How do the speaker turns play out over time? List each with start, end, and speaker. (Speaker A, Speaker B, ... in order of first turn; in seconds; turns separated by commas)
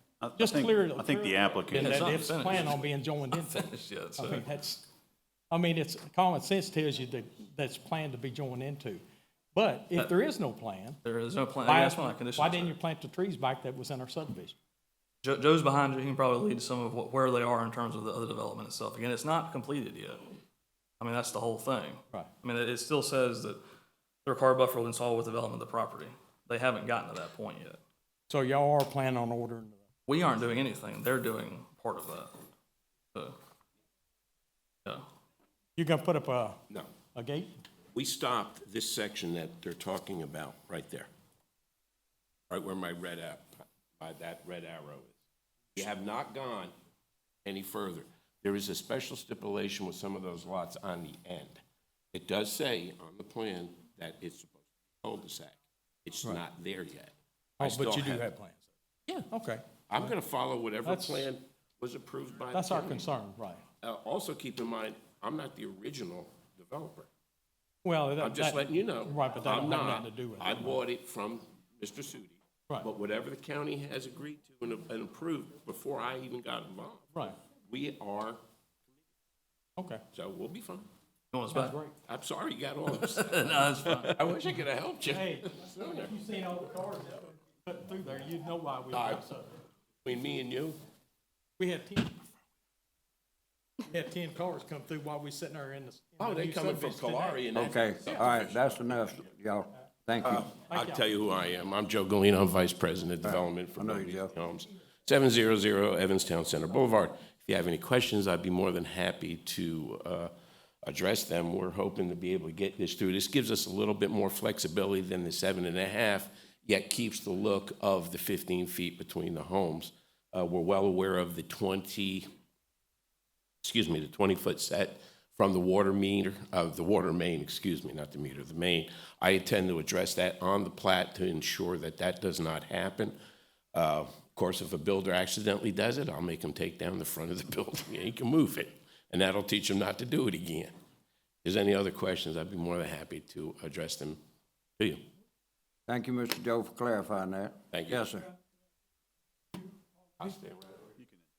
Speaker A: 0.2-2.4, Speaker B: 0.4-4.8, Speaker C: 1.7-2.8, Speaker C: 3.3-4.4, Speaker B: 5.5-9.0, Speaker B: 9.6-11.0, Speaker C: 11.0-12.8, Speaker B: 11.7-14.6, Speaker C: 15.2-20.2, Speaker C: 21.0-23.6, Speaker C: 24.2-27.8, Speaker B: 28.3-29.8, Speaker C: 30.1-32.3, Speaker B: 35.8-36.6, Speaker B: 37.1-37.5, Speaker D: 38.0-41.1, Speaker D: 42.5-45.2, Speaker D: 45.8-46.7, Speaker D: 47.5-51.6, Speaker D: 52.1-58.2, Speaker B: 57.6-58.7, Speaker B: 59.3-59.6, Speaker D: 59.9-63.0, Speaker B: 60.9-61.3, Speaker B: 62.5-63.6, Speaker D: 63.8-67.1, Speaker B: 67.8-70.8, Speaker D: 68.2-78.4, Speaker B: 79.8-80.0, Speaker D: 80.1-80.9, Speaker C: 81.3-81.8, Speaker B: 81.5-82.0, Speaker D: 82.1-86.1, Speaker C: 83.0-84.3, Speaker B: 85.1-89.5, Speaker D: 88.9-89.2, Speaker D: 90.0-90.8, Speaker B: 91.6-92.2, Speaker B: 93.9-97.4, Speaker D: 96.2-99.2, Speaker E: 97.5-100.5, Speaker D: 100.2-110.3, Speaker B: 100.7-101.0, Speaker E: 103.2-104.3, Speaker D: 110.8-122.3, Speaker D: 123.6-133.2, Speaker D: 133.7-140.7, Speaker D: 141.4-144.2, Speaker E: 145.9-148.3, Speaker D: 147.7-148.1, Speaker D: 150.2-150.9